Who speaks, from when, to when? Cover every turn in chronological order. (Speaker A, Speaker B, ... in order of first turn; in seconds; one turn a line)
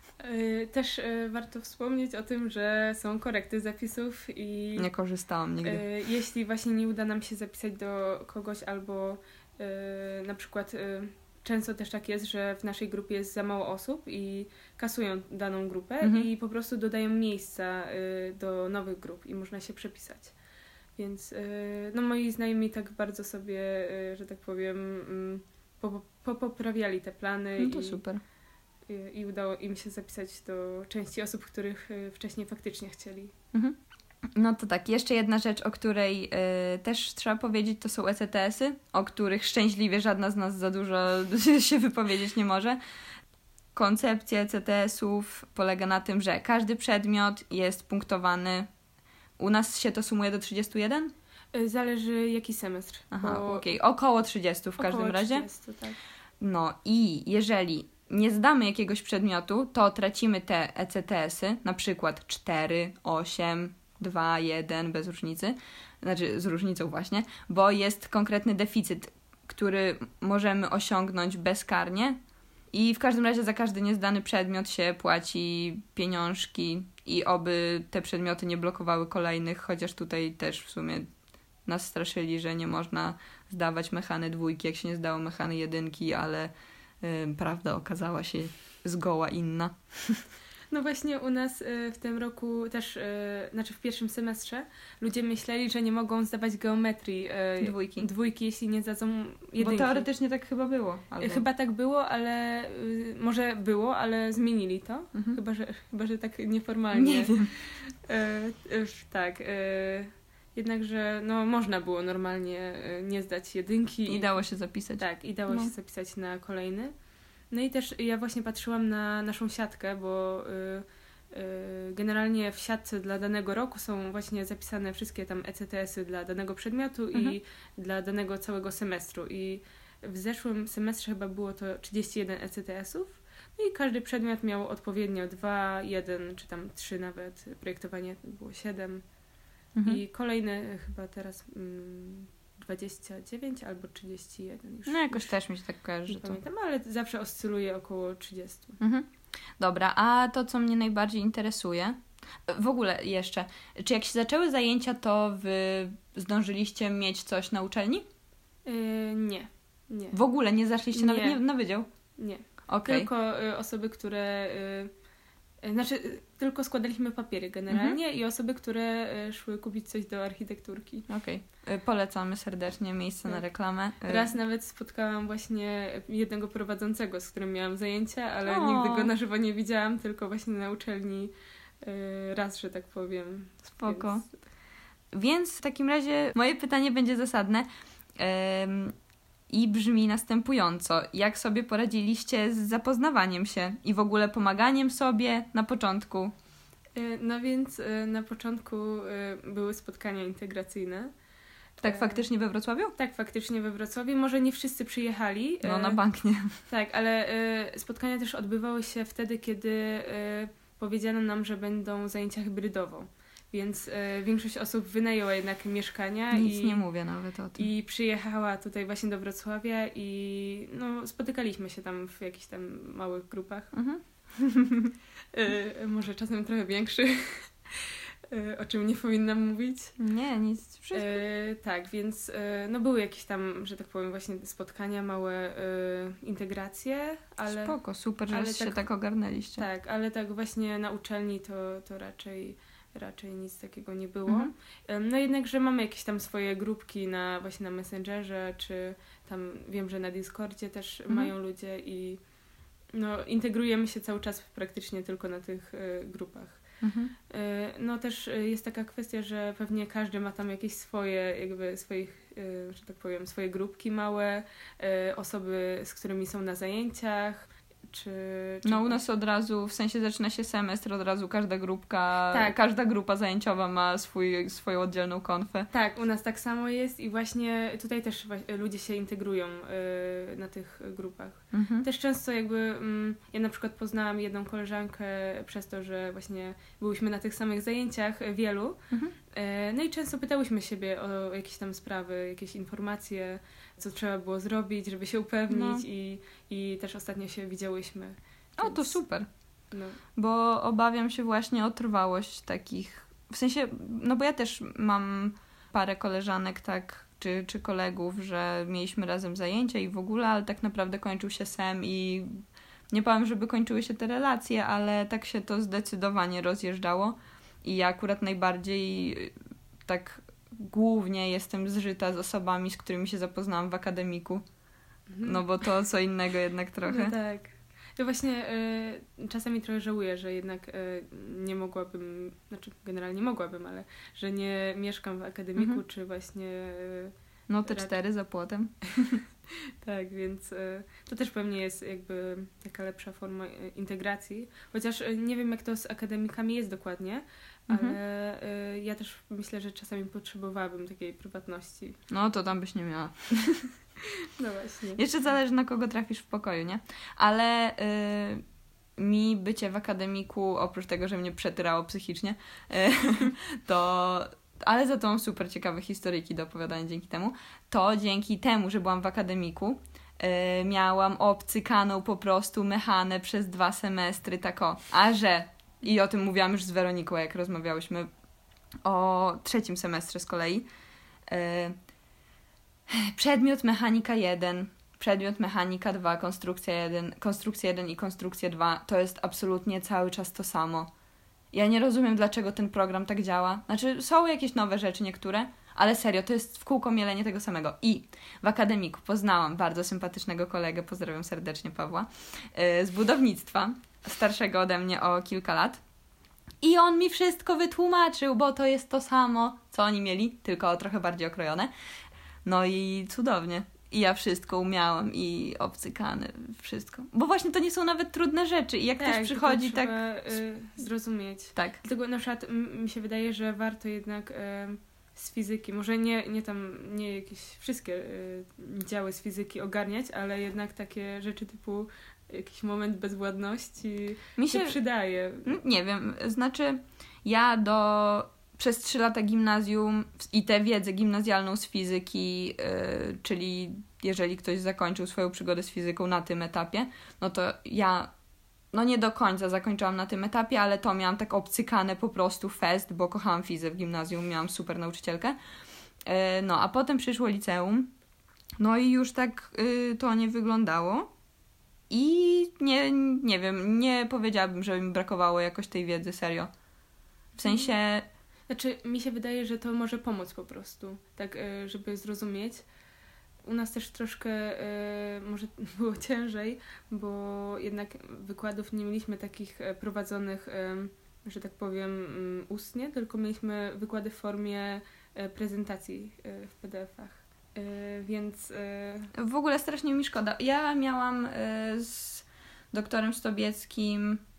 Speaker A: 0.2-4.9
Speaker B: 4.8-5.8
Speaker A: 5.6-20.3
Speaker B: 16.0-16.3
Speaker A: 21.0-28.0
Speaker B: 27.6-28.2
Speaker A: 28.9-33.3
Speaker B: 34.4-42.8
Speaker B: 43.7-48.7
Speaker B: 49.4-51.1
Speaker A: 51.5-53.7
Speaker B: 53.1-55.5
Speaker A: 54.8-56.0
Speaker B: 56.4-72.2
Speaker B: 72.7-81.1
Speaker B: 81.7-90.2
Speaker A: 90.7-100.1
Speaker B: 97.6-98.1
Speaker B: 99.6-101.4
Speaker A: 101.2-114.4
Speaker B: 107.0-107.5
Speaker B: 114.1-115.7
Speaker A: 115.0-116.9
Speaker A: 117.5-139.0
Speaker B: 139.8-140.0
Speaker A: 139.8-145.3
Speaker B: 144.9-146.4
Speaker A: 146.1-148.8
Speaker B: 148.8-149.1
Speaker B: 149.6-158.1
Speaker A: 158.7-160.2
Speaker B: 160.1-161.9
Speaker A: 160.9-161.4
Speaker A: 162.2-164.9
Speaker B: 162.7-163.1
Speaker A: 165.6-171.1
Speaker B: 167.7-168.0
Speaker B: 171.1-174.3
Speaker A: 174.0-184.3
Speaker B: 178.5-179.1
Speaker B: 183.8-184.2
Speaker B: 185.1-188.9
Speaker B: 189.5-196.3
Speaker A: 196.9-201.1
Speaker A: 201.8-202.2
Speaker B: 201.8-202.9
Speaker A: 203.0-206.0
Speaker B: 205.6-206.6
Speaker A: 206.7-216.8
Speaker B: 216.3-217.7
Speaker A: 217.6-223.7
Speaker B: 223.7-224.9
Speaker A: 225.3-230.0
Speaker B: 230.0-231.2
Speaker A: 230.9-237.8
Speaker B: 237.5-239.7
Speaker A: 238.3-238.8
Speaker A: 239.6-252.2
Speaker A: 252.9-256.7
Speaker B: 256.8-257.1
Speaker A: 257.3-269.0
Speaker B: 268.6-275.7
Speaker A: 272.3-272.6
Speaker A: 275.7-299.0
Speaker B: 281.5-281.9
Speaker B: 295.5-295.9
Speaker B: 298.6-299.3
Speaker A: 299.7-300.0
Speaker B: 300.2-319.4
Speaker B: 319.9-324.4
Speaker A: 325.1-325.5
Speaker B: 325.2-327.1
Speaker A: 326.8-337.1
Speaker B: 335.6-335.8
Speaker B: 337.5-339.2
Speaker A: 337.6-337.9
Speaker A: 339.8-352.0
Speaker B: 347.7-348.0
Speaker B: 352.1-353.7
Speaker A: 354.3-355.0
Speaker B: 355.0-358.4
Speaker B: 359.0-378.1
Speaker B: 378.8-380.7
Speaker B: 381.3-381.8
Speaker B: 382.9-390.9
Speaker B: 391.5-405.8
Speaker B: 406.6-411.7
Speaker B: 412.4-420.0
Speaker A: 419.0-435.6
Speaker B: 434.4-434.8
Speaker B: 435.4-448.1
Speaker B: 448.7-455.4
Speaker B: 456.1-457.9
Speaker B: 458.6-461.1
Speaker B: 461.9-466.5
Speaker B: 467.4-468.1
Speaker A: 467.4-467.7
Speaker A: 468.5-472.6
Speaker A: 473.4-489.1
Speaker B: 489.1-494.2